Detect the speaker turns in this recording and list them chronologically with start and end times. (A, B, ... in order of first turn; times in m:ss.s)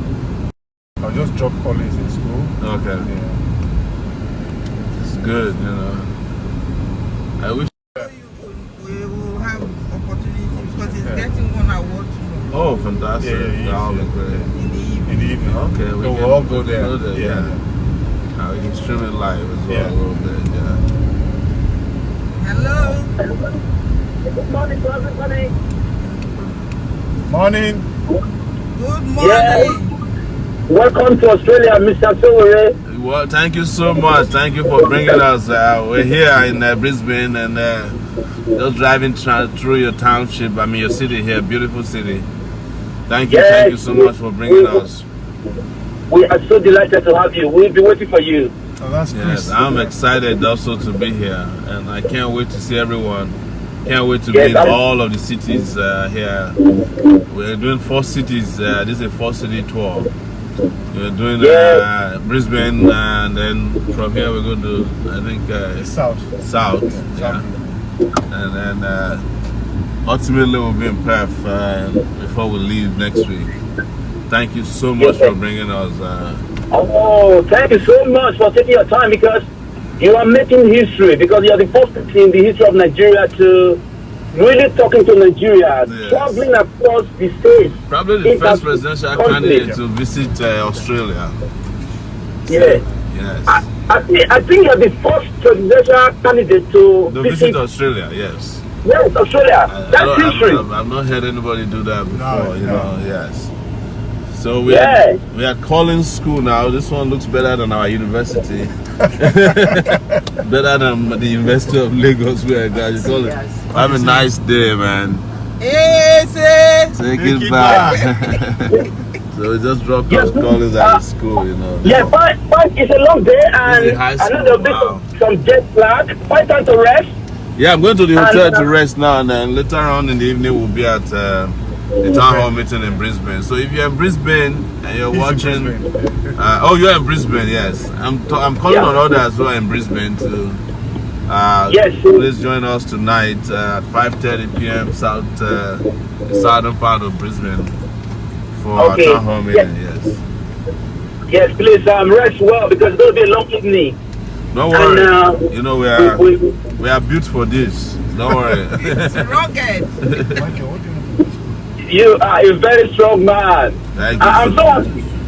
0:01.0-0:03.4 A
0:02.6-0:03.1 B
0:04.9-0:06.1 B
0:07.4-0:07.7 B
0:08.0-0:12.6 C
0:09.4-0:09.7 A
0:10.5-0:11.4 A
0:12.5-0:14.5 B
0:13.2-0:14.5 A
0:14.5-0:15.3 C
0:15.0-0:17.6 A
0:15.5-0:17.6 B
0:18.3-0:20.8 B
0:19.7-0:19.9 A
0:22.4-0:23.1 C
0:22.6-0:22.9 A
0:24.3-0:25.5 D
0:27.2-0:27.9 A
0:28.7-0:29.9 C
0:29.2-0:29.8 D
0:30.7-0:32.7 D
0:32.8-0:38.0 B
0:34.7-0:35.2 D
0:38.5-0:42.3 B
0:43.1-0:45.0 B
0:43.3-0:44.8 D
0:46.1-0:48.5 D
0:48.8-0:50.0 A
0:49.1-0:56.6 B
0:54.3-0:54.8 D
0:57.3-1:00.1 B
1:00.9-1:07.5 B
1:01.4-1:01.8 D
1:05.8-1:07.8 A
1:08.3-1:09.2 B
1:10.0-1:13.5 B
1:14.3-1:16.4 B
1:15.0-1:15.3 D
1:16.7-1:19.5 D
1:20.0-1:29.6 D
1:25.8-1:26.5 B
1:27.9-1:31.4 B
1:29.3-1:30.8 A
1:32.5-1:32.8 D
1:32.5-1:33.6 B
1:33.5-1:37.6 D
1:37.0-1:38.6 B
1:38.8-1:40.6 D
1:39.7-1:43.5 B
1:42.1-1:43.0 A
1:44.3-1:55.2 B
1:44.7-1:45.2 D
1:49.6-1:50.2 A
1:53.2-1:53.6 D
1:53.6-1:54.3 A
1:55.6-1:57.0 C
1:56.9-1:58.8 B
1:57.1-1:58.1 A
1:57.6-1:58.3 C
1:59.3-2:02.1 B
2:00.1-2:01.0 D
2:01.8-2:07.1 D
2:03.6-2:05.1 B
2:07.6-2:15.8 B
2:08.1-2:08.7 D
2:12.1-2:12.5 A
2:15.1-2:16.4 A
2:16.4-2:20.6 B
2:18.7-2:18.9 D
2:21.3-2:27.7 B
2:21.7-2:22.2 D
2:28.5-2:30.2 B
2:28.8-2:29.7 D
2:31.3-2:34.0 D
2:34.5-2:36.2 B
2:34.7-2:36.6 D
2:36.8-2:39.4 B
2:38.4-2:40.1 C
2:40.0-2:40.4 B
2:40.3-2:41.6 A
2:41.9-2:44.9 D
2:43.9-2:44.9 B